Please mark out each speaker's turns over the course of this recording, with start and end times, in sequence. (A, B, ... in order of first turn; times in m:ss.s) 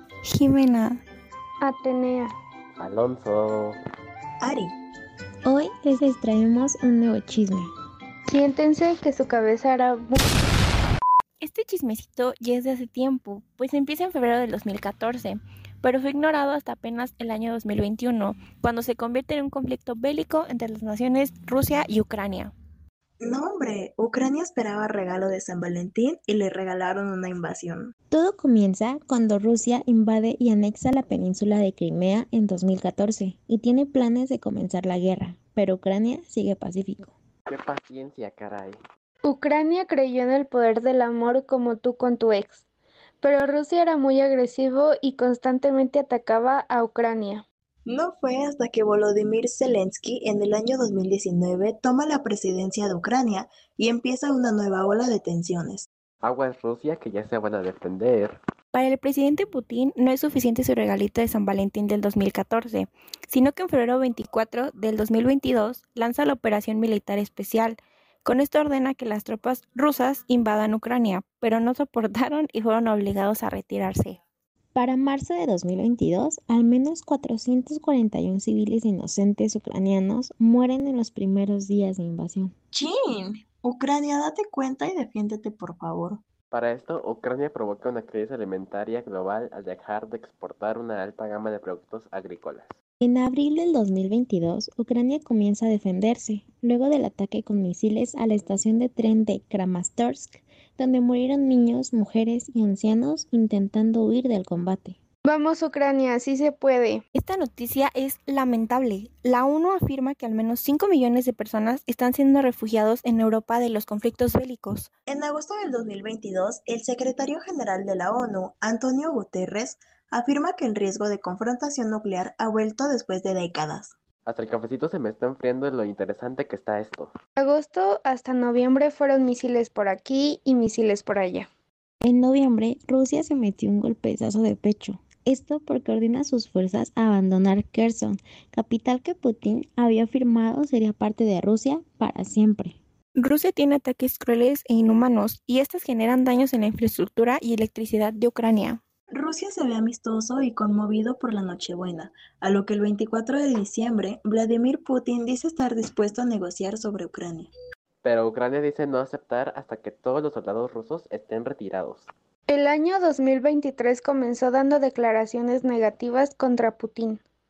0:00.2-0:01.0 A
0:01.6-0:02.3 B
0:02.8-0:03.8 C
0:04.4-0:04.7 D
0:05.4-0:07.7 E
0:08.3-0:10.4 B
0:11.4-0:22.5 A
0:23.2-0:27.9 D
0:28.1-0:37.1 E
0:37.5-0:38.8 C
0:39.2-0:42.6 B
0:43.2-0:47.4 B
0:47.9-0:55.9 D
0:56.2-0:58.4 C
0:58.7-1:14.2 A
1:14.7-1:22.5 E
1:22.7-1:26.2 D
1:26.5-1:32.8 C
1:33.0-1:45.0 E
1:45.2-1:47.0 B
1:47.1-1:54.9 A
1:55.1-2:03.9 D
2:04.2-2:07.1 C
2:07.4-2:11.5 B
2:12.0-2:22.8 E
2:23.2-2:28.8 A
2:29.1-2:37.5 D
2:38.0-2:42.1 C
2:42.5-2:47.2 B